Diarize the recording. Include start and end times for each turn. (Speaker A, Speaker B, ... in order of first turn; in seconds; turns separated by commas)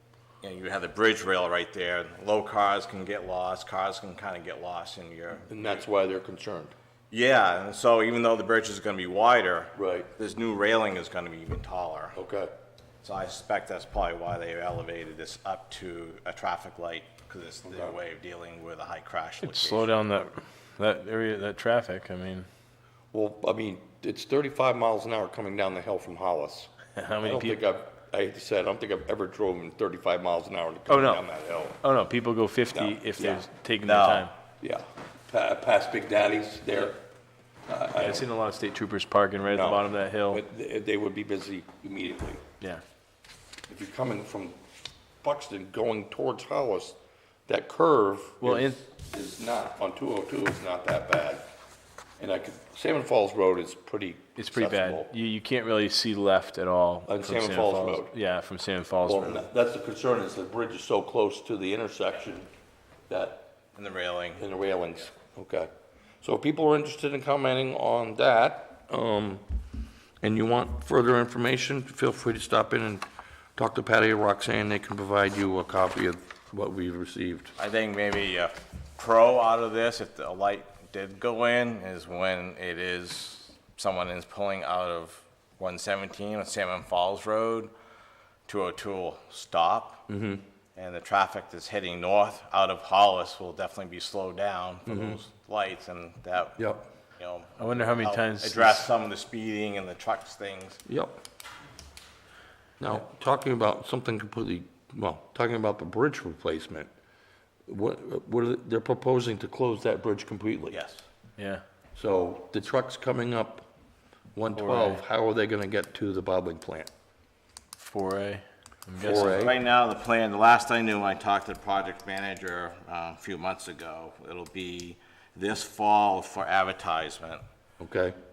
Speaker A: 0.4-5.8, Speaker B: 5.5-6.7, Speaker A: 7.1-12.2, Speaker B: 9.8-10.1, Speaker B: 12.2-12.5, Speaker A: 13.0-19.9, Speaker B: 17.7-18.0, Speaker C: 19.4-22.5, Speaker B: 23.1-26.7, Speaker C: 27.0-27.6, Speaker B: 27.2-31.8, Speaker C: 30.9-31.2, Speaker C: 31.8-34.3, Speaker B: 32.7-33.4, Speaker A: 33.9-34.3, Speaker B: 34.6-37.0, Speaker B: 37.7-38.3, Speaker C: 38.0-40.4, Speaker B: 39.5-42.5, Speaker B: 43.7-44.6, Speaker B: 45.2-47.0, Speaker B: 47.5-51.4, Speaker C: 48.4-48.8, Speaker B: 52.2-55.1, Speaker C: 54.4-59.5, Speaker B: 57.1-58.1, Speaker B: 59.0-62.5, Speaker B: 63.1-63.5, Speaker A: 63.8-64.4, Speaker B: 64.4-65.7, Speaker B: 66.2-69.6, Speaker B: 70.2-73.1, Speaker B: 73.6-77.5, Speaker A: 77.6-87.7, Speaker A: 88.5-90.0, Speaker B: 90.1-90.5, Speaker A: 90.8-96.6, Speaker B: 94.9-95.2, Speaker B: 96.6-96.9, Speaker A: 97.2-100.8, Speaker C: 97.6-98.9, Speaker B: 100.9-101.2, Speaker B: 102.8-106.9, Speaker B: 107.7-110.8, Speaker A: 110.7-111.0, Speaker C: 111.4-111.6, Speaker B: 112.0-113.7, Speaker B: 114.4-116.9, Speaker C: 114.6-115.0, Speaker C: 117.8-119.4, Speaker B: 119.0-119.6, Speaker A: 119.0-127.4, Speaker B: 127.8-128.2